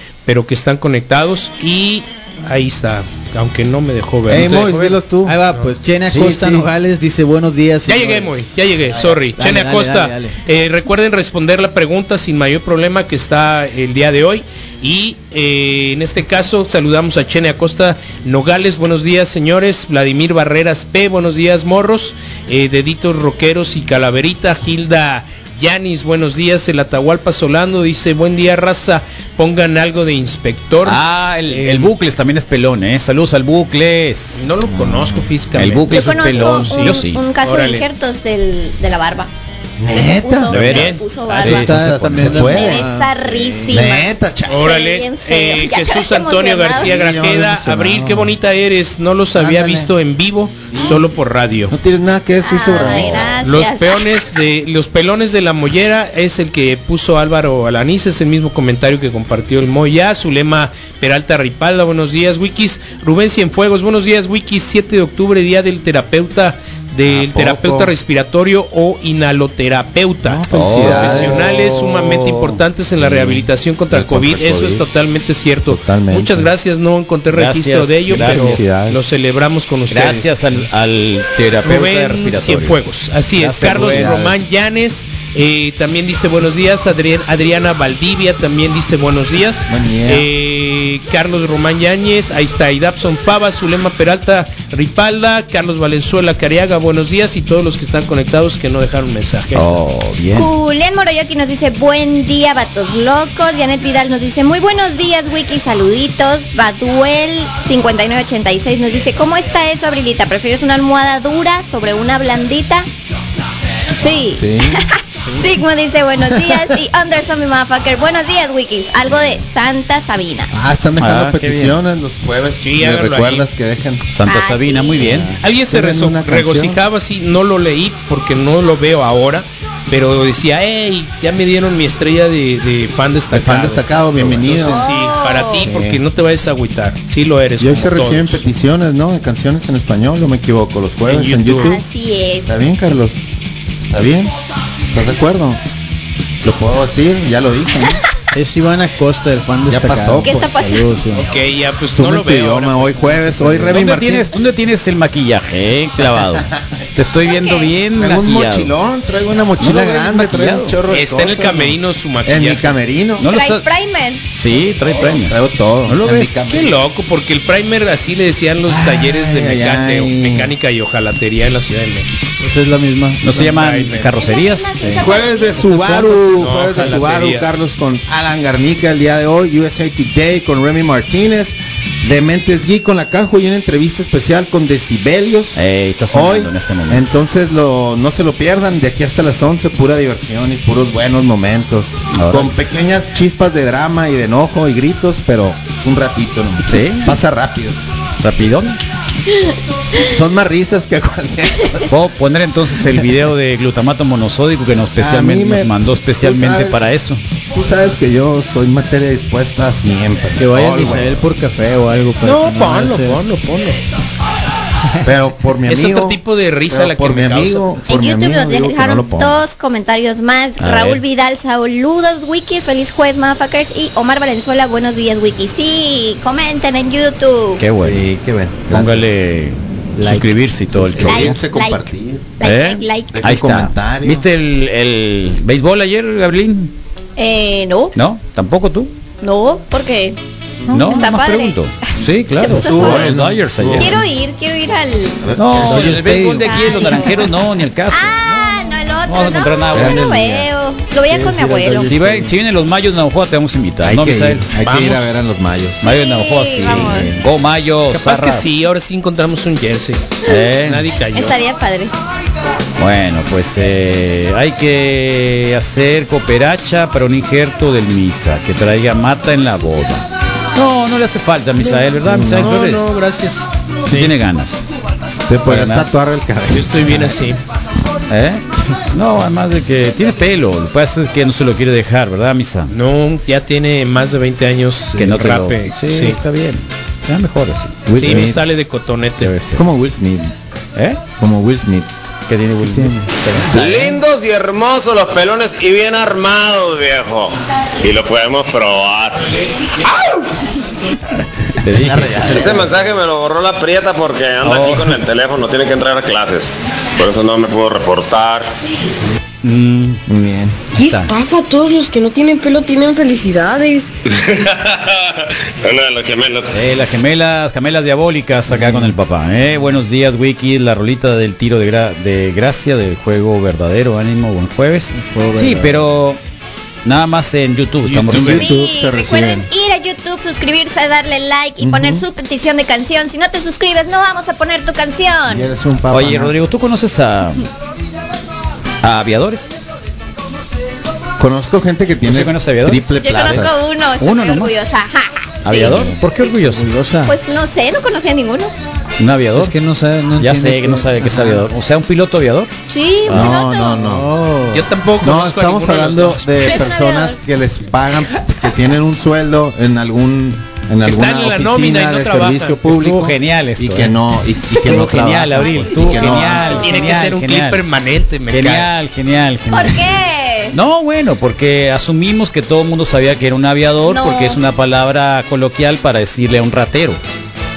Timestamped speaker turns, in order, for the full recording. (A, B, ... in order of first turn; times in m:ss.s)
0:00.2-0:05.0 A
0:04.3-0:05.4 B
0:05.2-0:08.6 C
0:06.1-0:06.7 B
0:07.9-0:31.9 A
0:08.9-0:09.2 B
0:09.4-0:10.3 C
0:30.8-0:34.5 D
0:34.3-0:37.8 A
0:34.7-0:35.2 C
0:35.6-0:37.2 D
0:35.9-0:39.3 E
0:39.8-0:42.9 B
0:39.9-0:41.7 E
0:40.5-0:42.7 D
0:40.6-0:41.1 A
0:41.4-0:43.8 C
0:42.4-0:46.9 E
0:43.7-0:44.8 B
0:44.5-0:51.7 A
0:46.7-0:48.4 B
0:49.3-0:49.9 B
0:50.7-0:51.0 B
0:51.7-0:53.4 B
0:52.4-0:54.2 E
0:52.9-1:20.3 A
1:07.0-1:07.9 B
1:10.2-1:11.7 B
1:10.5-1:12.6 D
1:12.9-1:14.8 B
1:15.6-1:16.5 B
1:17.3-1:18.6 D
1:18.1-1:19.0 B
1:19.9-1:22.8 D
1:21.6-1:39.8 A
1:23.4-1:24.1 D
1:23.6-1:24.4 B
1:29.7-1:30.3 B
1:39.5-1:40.5 D
1:40.3-1:52.9 E
1:54.0-2:00.5 E
1:54.3-1:54.8 B
1:56.2-1:56.7 B
2:00.5-2:04.0 B
2:01.0-2:01.8 D
2:02.6-2:03.4 A
2:04.1-2:05.3 D
2:04.2-2:05.2 E
2:05.0-2:06.8 B
2:05.4-2:18.4 A
2:13.3-2:14.9 B
2:14.7-2:15.7 E
2:15.6-2:16.0 B
2:17.6-2:21.8 B
2:21.1-2:21.8 A
2:21.6-2:22.5 E
2:22.4-2:23.2 B
2:23.8-2:24.3 B
2:24.9-2:25.6 B
2:26.4-2:28.0 B
2:28.3-2:31.2 C
2:29.7-2:30.7 B
2:30.2-2:30.9 E
2:31.1-2:33.7 A
2:31.9-2:34.3 B
2:33.4-2:33.7 C
2:33.7-2:38.7 D
2:36.0-2:36.8 B
2:37.2-2:37.7 E
2:37.9-2:43.3 B
2:39.6-2:40.8 D
2:40.9-2:42.8 A
2:43.2-2:43.7 D
2:43.2-2:44.2 E
2:44.3-2:46.4 D
2:44.5-2:46.8 B
2:46.4-2:52.1 A
2:48.7-2:50.5 B
2:52.4-2:53.6 C
2:53.2-2:54.7 D
2:53.4-2:54.2 A
2:54.1-2:55.8 E
2:54.8-2:55.1 C
2:55.0-3:17.8 B
2:55.6-2:57.5 A
3:05.5-3:07.0 D
3:12.1-3:12.5 D
3:16.6-3:17.2 D
3:18.2-3:18.8 D
3:20.0-3:21.9 B
3:21.9-3:27.2 D
3:25.0-3:26.8 B
3:27.5-3:31.3 B
3:30.4-3:33.2 C
3:32.2-3:33.8 A
3:35.0-3:39.4 B
3:35.7-3:37.9 A
3:37.9-3:47.6 E
3:40.6-3:41.0 D
3:47.6-3:48.0 D
3:47.8-3:49.2 B
3:48.7-3:51.4 D
3:50.0-3:52.4 B
3:51.0-3:53.2 E
3:52.4-3:56.7 D
3:53.1-3:54.2 B
3:57.2-3:57.9 E
3:57.9-3:58.9 D
3:59.2-4:00.2 E
4:00.6-4:01.1 B
4:00.7-4:04.0 D
4:00.8-4:01.6 E
4:02.4-4:03.2 E
4:02.4-4:04.0 B
4:03.8-4:05.3 E
4:05.2-4:06.2 B
4:05.4-4:10.3 D
4:05.6-4:07.0 C
4:06.3-4:07.3 E
4:07.9-4:11.9 E
4:09.7-4:10.5 B
4:11.0-4:12.3 B
4:11.1-4:12.2 C
4:11.9-4:14.5 D
4:13.8-4:15.8 B
4:14.6-4:15.1 A
4:15.8-4:18.5 D
4:15.8-4:17.2 E
4:16.6-4:17.2 B
4:17.9-4:21.4 A
4:20.2-4:20.8 D
4:21.1-4:21.9 E
4:22.8-4:32.8 D
4:31.6-4:34.1 A
4:32.0-4:32.6 B
4:33.9-4:34.6 D
4:35.3-4:37.2 B
4:35.4-4:35.9 D
4:36.5-4:37.4 A
4:38.1-4:42.7 D
4:42.7-4:46.2 A
4:45.0-4:48.3 D
4:47.8-4:48.4 B
4:48.0-4:49.3 A
4:49.2-4:49.7 D
4:49.5-4:50.3 B
4:50.8-4:51.0 D
4:51.2-4:51.9 B
4:52.3-4:53.9 D
4:53.0-4:53.9 B
4:53.4-4:59.4 F
5:01.5-5:02.6 D
5:01.6-5:02.7 B
5:02.2-5:08.4 F
5:04.4-5:05.0 D
5:09.4-5:10.0 D
5:10.1-5:10.6 B
5:10.7-5:11.1 D
5:10.7-5:13.9 G
5:14.1-5:16.6 F
5:16.5-5:26.2 D
5:18.5-5:18.9 C
5:24.9-5:25.8 C
5:26.8-5:28.5 D
5:27.8-5:28.5 A
5:28.1-5:29.5 B
5:28.3-5:35.5 E
5:31.6-5:32.0 B
5:35.3-5:36.4 B
5:35.9-5:37.4 D
5:38.8-5:39.5 D
5:41.2-5:43.6 B
5:42.0-5:44.5 D
5:43.0-5:45.9 E
5:45.4-5:46.6 D
5:45.8-5:47.2 C
5:47.0-5:48.5 E
5:49.0-5:49.6 D
5:49.4-5:51.4 C
5:50.2-5:52.5 D
5:52.7-5:53.9 E
5:53.0-5:54.1 B
5:53.1-5:53.3 D
5:53.8-5:54.6 C
5:54.5-5:56.6 A
5:55.0-6:06.8 B
5:56.4-5:57.2 E
6:00.8-6:02.7 A
6:02.7-6:03.9 D
6:04.5-6:07.6 D
6:05.4-6:06.2 E
6:06.2-6:08.7 A
6:08.3-6:09.9 D
6:09.5-6:10.5 E
6:10.5-6:17.0 D
6:13.9-6:14.4 E